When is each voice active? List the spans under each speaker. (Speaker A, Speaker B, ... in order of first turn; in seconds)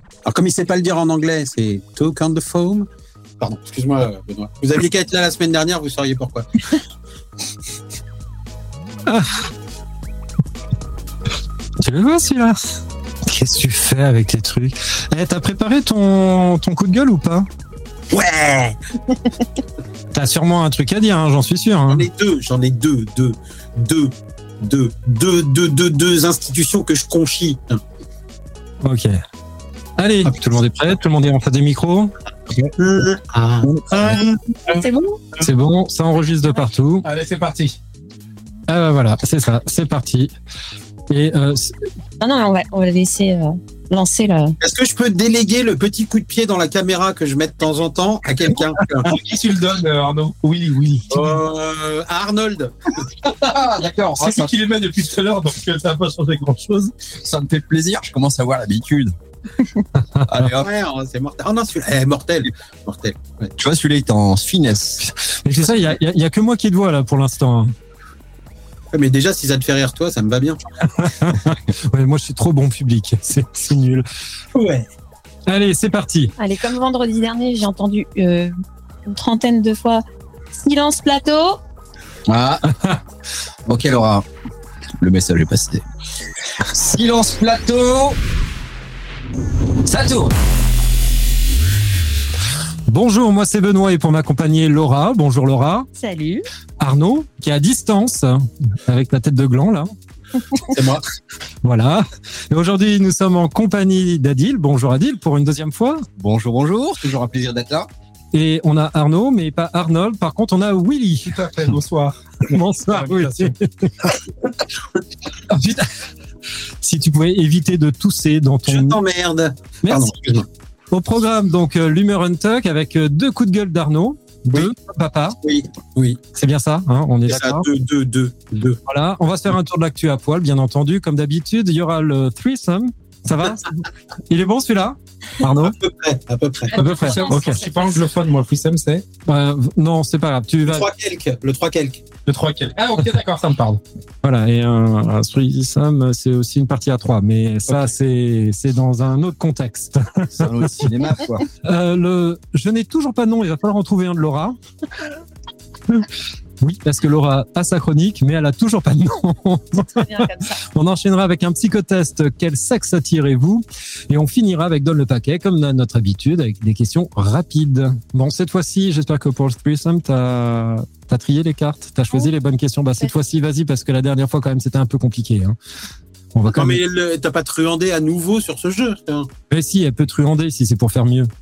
Speaker A: 0.2-2.9, 3.4-6.5, 18.1-18.8, 21.9-27.8, 30.2-30.6, 32.8-33.7, 44.6-49.1, 51.1-53.0, 60.6-63.5, 68.9-70.6, 74.5-74.8, 100.7-101.0, 118.7-120.5, 125.4-126.2, 127.3-128.8, 135.6-136.8, 140.7-142.0, 176.5-179.3
Speaker B: 9.1-9.4, 11.8-12.6, 13.2-17.5, 20.1-22.1, 28.8-29.2, 30.0-32.1, 33.9-34.2, 35.4-37.1, 38.7-40.3, 41.1-41.8, 65.0-67.7, 71.0-74.0, 75.5-76.3, 92.9-95.9, 96.8-99.9, 101.6-106.0, 108.3-111.3, 112.5-114.1, 115.5-115.9, 116.8-119.0, 119.8-120.1, 120.9-125.4, 126.3-127.7, 128.9-135.8, 136.7-137.6, 139.3-140.9, 144.2-150.5, 151.6-154.6, 156.6-175.6, 176.3-176.8, 179.5-181.3
Speaker C: 34.7-35.2, 42.2-44.5, 76.4-78.5, 79.0-81.6, 96.0-96.5, 159.8-160.6
Speaker D: 37.0-37.8, 49.0-51.3, 54.2-56.9, 111.2-113.5, 136.7-139.1, 142.2-143.8
Speaker E: 53.2-54.5, 57.2-59.1, 60.2-60.7, 63.6-65.0, 82.3-82.7, 83.7-84.2, 85.0-85.8, 86.6-88.2, 89.8-90.3, 106.2-107.9, 150.3-151.4